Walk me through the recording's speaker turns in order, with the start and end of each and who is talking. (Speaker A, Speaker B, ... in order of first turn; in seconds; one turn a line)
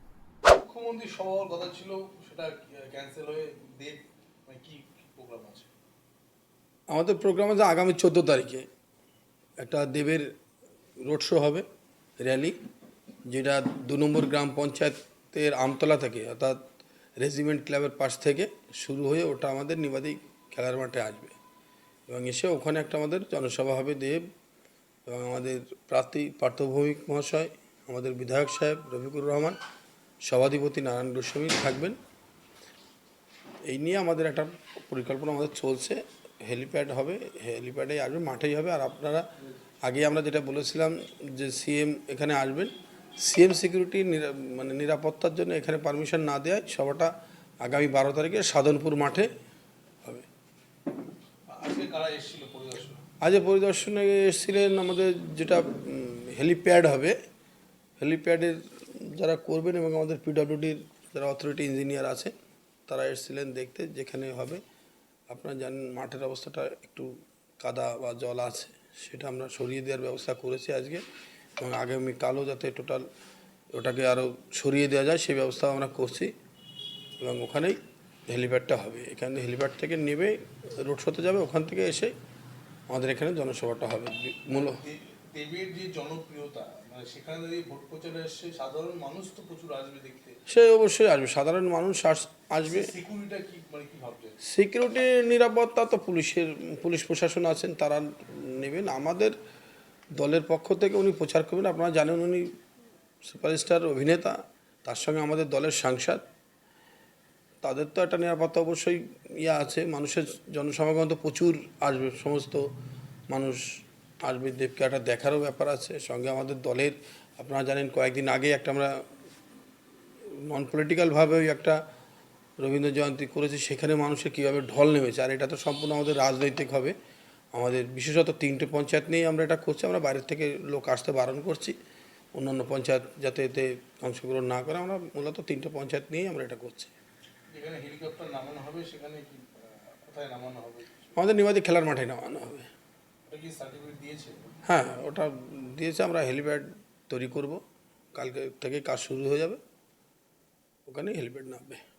Speaker A: 0.6-5.7
Speaker B: 6.9-8.7
Speaker B: 9.6-10.3
Speaker B: 11.0-11.7
Speaker B: 12.2-12.6
Speaker B: 13.3-16.6
Speaker B: 17.2-21.3
Speaker B: 22.1-24.3
Speaker B: 25.1-29.6
Speaker B: 30.2-32.0
Speaker B: 33.6-39.3
Speaker B: 39.8-49.3
Speaker A: 51.5-53.0
Speaker B: 53.2-57.1
Speaker B: 58.0-62.3
Speaker B: 62.9-64.6
Speaker B: 65.3-71.0
Speaker B: 71.6-73.0
Speaker B: 73.7-76.3
Speaker B: 77.2-82.1
Speaker B: 82.9-84.8
Speaker A: 84.5-90.4
Speaker B: 90.5-92.9
Speaker A: 92.7-94.4
Speaker B: 94.4-99.3
Speaker B: 100.2-102.5
Speaker B: 103.2-106.2
Speaker B: 107.6-112.7
Speaker B: 113.3-113.6
Speaker B: 114.2-119.0
Speaker B: 120.3-121.8
Speaker B: 122.6-126.9
Speaker B: 127.5-131.8
Speaker B: 132.3-136.9
Speaker A: 137.5-141.1
Speaker B: 141.1-142.7
Speaker A: 143.3-144.6
Speaker B: 144.6-147.6
Speaker B: 148.1-149.6
Speaker B: 150.8-151.8